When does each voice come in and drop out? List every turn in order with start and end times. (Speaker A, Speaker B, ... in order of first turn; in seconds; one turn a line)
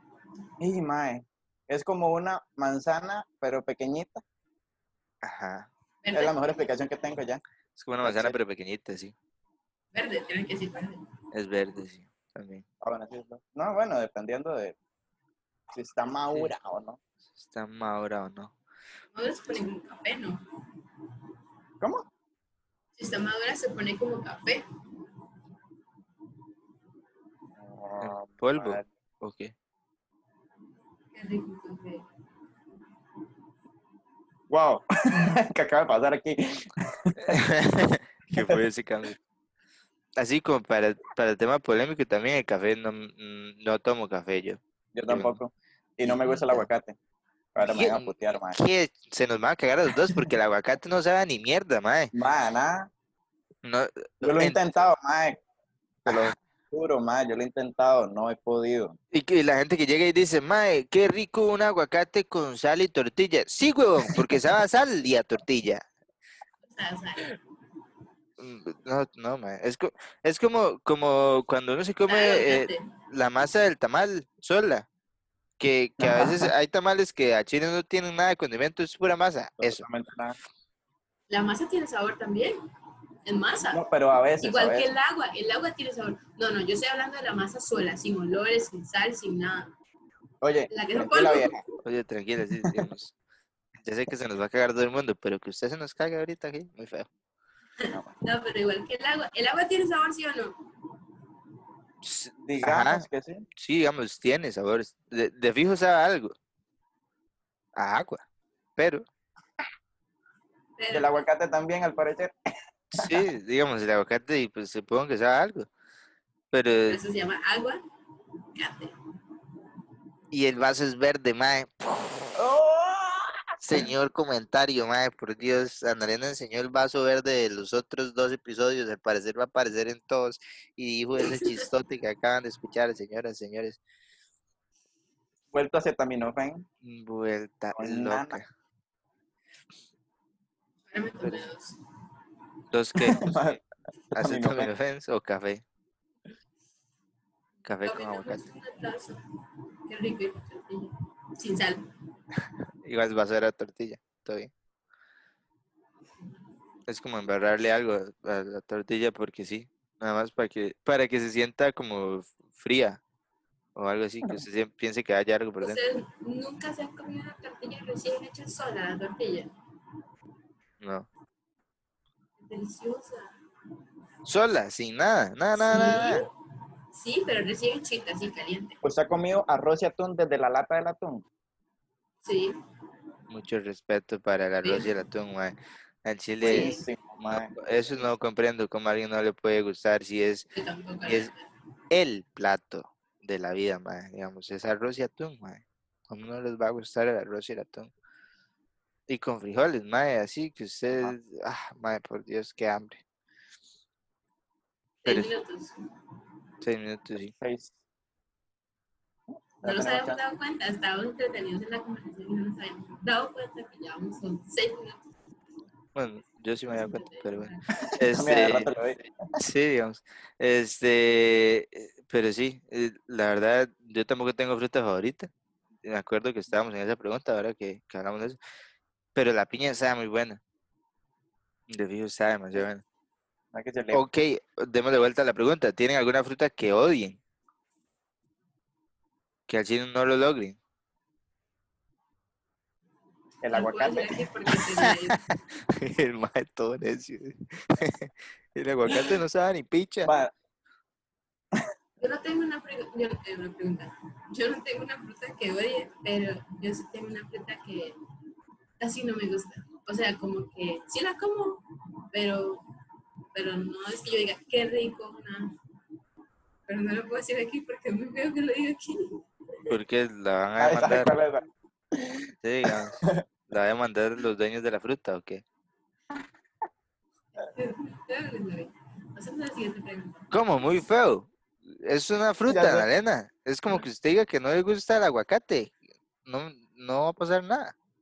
Speaker A: 0.6-4.2
Speaker B: 5.2-5.7
Speaker C: 6.0-6.4
Speaker A: 6.1-7.4
Speaker B: 7.8-9.1
Speaker A: 8.0-8.4
Speaker C: 9.9-11.0
Speaker B: 11.3-12.7
Speaker A: 12.8-14.8
Speaker A: 15.7-17.0
Speaker B: 17.4-18.5
Speaker C: 19.1-20.4
Speaker C: 23.0-24.6
Speaker A: 27.6-28.9
Speaker B: 28.0-29.5
Speaker C: 31.1-32.0
Speaker A: 34.5-37.4
Speaker B: 37.2-39.2
Speaker A: 38.4-38.6
Speaker B: 40.2-45.4
Speaker A: 45.0-47.0
Speaker B: 46.0-46.7
Speaker A: 47.5-48.6
Speaker B: 47.6-52.1
Speaker A: 52.1-52.9
Speaker B: 53.6-54.7
Speaker A: 54.2-55.4
Speaker B: 56.1-56.4
Speaker A: 56.1-59.0
Speaker B: 59.1-65.8
Speaker C: 66.6-67.4
Speaker B: 68.4-74.9
Speaker C: 72.1-72.9
Speaker B: 75.6-79.8
Speaker A: 76.0-76.5
Speaker A: 79.6-80.4
Speaker C: 81.3-82.6
Speaker C: 83.3-83.8
Speaker A: 83.7-84.9
Speaker C: 84.4-89.7
Speaker A: 90.4-91.6
Speaker C: 90.7-91.6
Speaker B: 91.8-93.1
Speaker A: 92.6-92.9
Speaker B: 93.8-97.1
Speaker C: 97.8-100.6
Speaker B: 102.0-103.0
Speaker A: 102.5-103.5
Speaker B: 103.6-106.3
Speaker B: 107.8-108.2
Speaker B: 108.8-109.0
Speaker C: 110.8-111.2
Speaker A: 110.9-112.3
Speaker A: 112.9-113.3
Speaker B: 112.9-115.7
Speaker B: 116.5-117.0
Speaker C: 116.9-117.8
Speaker C: 118.5-118.9
Speaker B: 120.3-122.4
Speaker A: 122.4-123.9
Speaker B: 123.6-133.8
Speaker A: 135.5-136.7
Speaker B: 136.8-138.4
Speaker A: 137.7-138.4
Speaker C: 140.9-141.8
Speaker B: 142.7-143.6
Speaker A: 143.0-143.6
Speaker A: 144.1-144.7
Speaker B: 144.2-145.6
Speaker B: 147.7-148.4
Speaker C: 147.8-149.2
Speaker C: 149.9-151.9
Speaker B: 152.8-154.5
Speaker B: 156.9-163.0
Speaker B: 163.8-165.8
Speaker C: 165.6-169.5
Speaker B: 170.8-171.1
Speaker C: 172.4-173.3
Speaker B: 174.3-176.3
Speaker C: 175.5-176.3
Speaker C: 176.9-178.8
Speaker A: 178.8-181.2
Speaker C: 182.2-182.6
Speaker B: 183.3-190.5
Speaker C: 184.6-184.9
Speaker A: 186.4-187.6
Speaker C: 186.4-186.8
Speaker C: 190.5-191.5
Speaker B: 191.1-191.3
Speaker B: 191.9-197.9
Speaker B: 199.1-203.0
Speaker C: 205.0-205.8
Speaker B: 205.1-205.3
Speaker B: 206.6-207.3
Speaker A: 207.4-207.7
Speaker A: 209.3-210.2
Speaker C: 209.6-215.1
Speaker B: 215.9-218.7
Speaker C: 216.7-217.8
Speaker A: 217.9-219.1
Speaker B: 219.4-225.3
Speaker B: 225.8-228.4
Speaker B: 229.2-230.4
Speaker B: 231.7-232.8
Speaker A: 233.5-234.0
Speaker B: 233.9-237.2
Speaker B: 239.5-240.6
Speaker A: 243.4-244.2
Speaker C: 243.5-245.2
Speaker B: 244.8-250.1
Speaker A: 250.1-250.3
Speaker C: 252.0-258.0
Speaker C: 258.8-262.6
Speaker C: 263.3-265.5
Speaker C: 266.7-269.2
Speaker B: 269.7-271.2
Speaker A: 270.6-273.2
Speaker B: 272.4-275.4
Speaker C: 277.4-280.3
Speaker B: 280.3-287.7
Speaker A: 282.5-282.9